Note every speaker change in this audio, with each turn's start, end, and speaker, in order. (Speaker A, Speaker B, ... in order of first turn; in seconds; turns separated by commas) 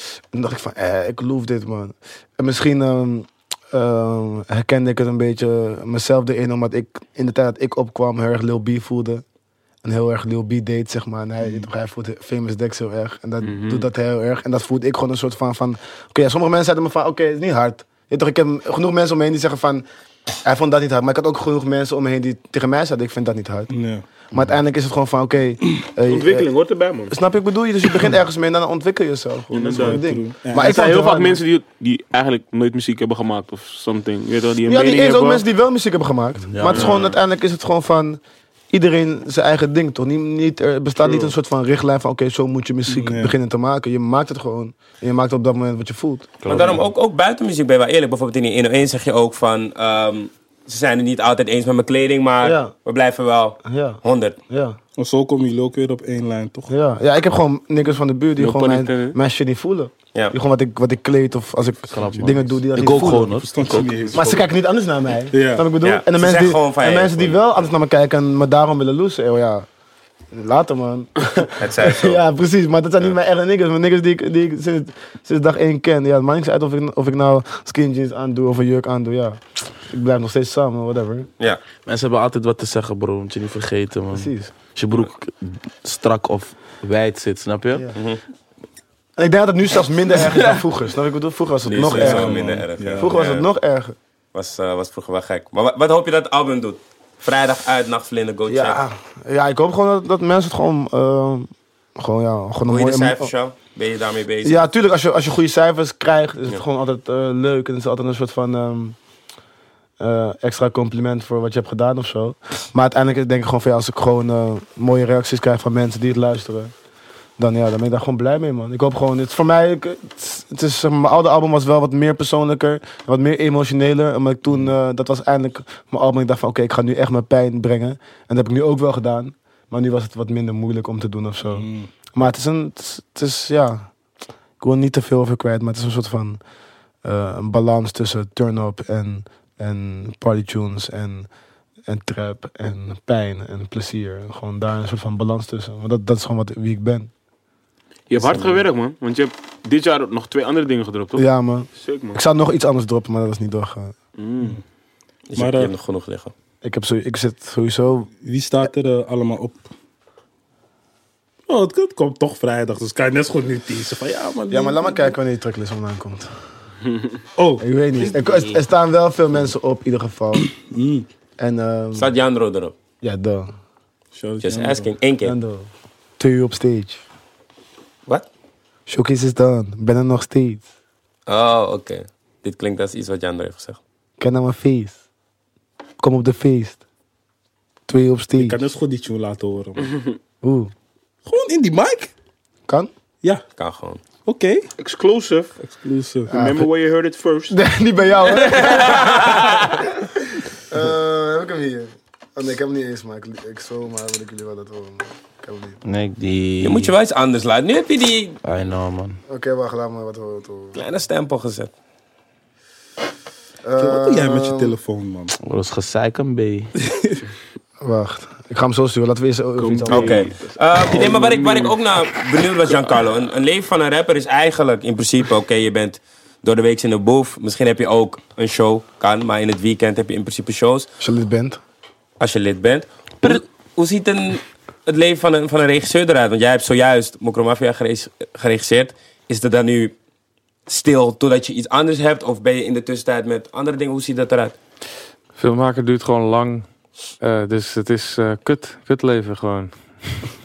Speaker A: 0.3-9.2, Speaker A: 9.8-19.8, Speaker B: 13.4-13.8, Speaker A: 20.4-23.7, Speaker C: 23.7-24.0, Speaker A: 24.3-26.5, Speaker B: 26.1-27.1, Speaker A: 27.1-31.4, Speaker B: 29.5-35.4, Speaker C: 29.6-30.8, Speaker A: 34.6-38.2, Speaker D: 36.5-37.0, Speaker B: 36.6-37.0, Speaker A: 38.7-46.4, Speaker B: 41.0-41.3, Speaker C: 42.9-43.3, Speaker D: 46.4-46.8, Speaker E: 46.5-54.4, Speaker A: 52.4-52.7, Speaker A: 53.6-54.8, Speaker C: 55.0-56.7, Speaker A: 56.7-63.4, Speaker B: 58.4-59.2, Speaker D: 61.9-63.9, Speaker C: 63.3-64.5, Speaker A: 64.1-69.7, Speaker C: 65.3-65.6, Speaker E: 65.8-67.4, Speaker A: 70.3-81.3, Speaker E: 71.6-72.2, Speaker D: 81.8-87.8, Speaker A: 84.1-84.5, Speaker E: 87.9-88.2, Speaker A: 89.2-94.0, Speaker E: 91.7-93.5, Speaker C: 91.7-93.1, Speaker E: 94.3-98.8, Speaker A: 98.5-103.3, Speaker E: 102.7-104.6, Speaker A: 104.4-109.0, Speaker A: 110.0-116.7, Speaker A: 117.4-133.9, Speaker C: 131.5-131.9, Speaker A: 134.6-136.4, Speaker A: 137.0-141.3, Speaker A: 141.9-147.1, Speaker B: 148.1-151.2, Speaker A: 148.2-148.6, Speaker A: 151.1-153.9, Speaker B: 151.8-152.2, Speaker B: 154.2-154.6, Speaker E: 155.3-156.3, Speaker C: 155.3-155.7, Speaker A: 156.6-158.1, Speaker C: 158.2-159.7, Speaker C: 161.5-165.1, Speaker A: 164.5-166.3, Speaker C: 167.4-168.1, Speaker A: 167.6-170.5, Speaker C: 170.6-171.1, Speaker A: 171.4-172.1, Speaker E: 171.9-172.8, Speaker A: 173.0-173.5, Speaker C: 174.1-174.9, Speaker E: 174.4-175.3, Speaker A: 175.2-175.7, Speaker A: 176.2-177.0, Speaker A: 178.9-180.6, Speaker E: 181.3-183.8, Speaker A: 184.2-185.0, Speaker A: 186.0-186.8, Speaker A: 187.9-188.6, Speaker C: 188.3-189.9, Speaker A: 190.4-190.7, Speaker C: 191.2-192.1, Speaker E: 193.6-194.0, Speaker C: 194.2-194.7, Speaker B: 194.8-195.6, Speaker C: 195.6-196.3, Speaker A: 196.3-196.7, Speaker B: 196.3-197.6, Speaker A: 197.5-199.7, Speaker B: 198.4-199.7, Speaker A: 200.7-205.8, Speaker D: 205.8-206.9, Speaker E: 206.6-208.4, Speaker D: 208.4-209.2, Speaker A: 209.3-210.8, Speaker E: 210.7-211.7, Speaker A: 213.6-214.7, Speaker C: 213.8-215.3, Speaker D: 215.4-216.7, Speaker C: 216.8-217.2, Speaker A: 217.8-220.2, Speaker B: 219.6-221.7, Speaker E: 219.9-230.9, Speaker A: 231.0-231.6, Speaker E: 232.2-239.9, Speaker E: 240.7-244.6, Speaker F: 245.3-246.7, Speaker F: 247.2-250.2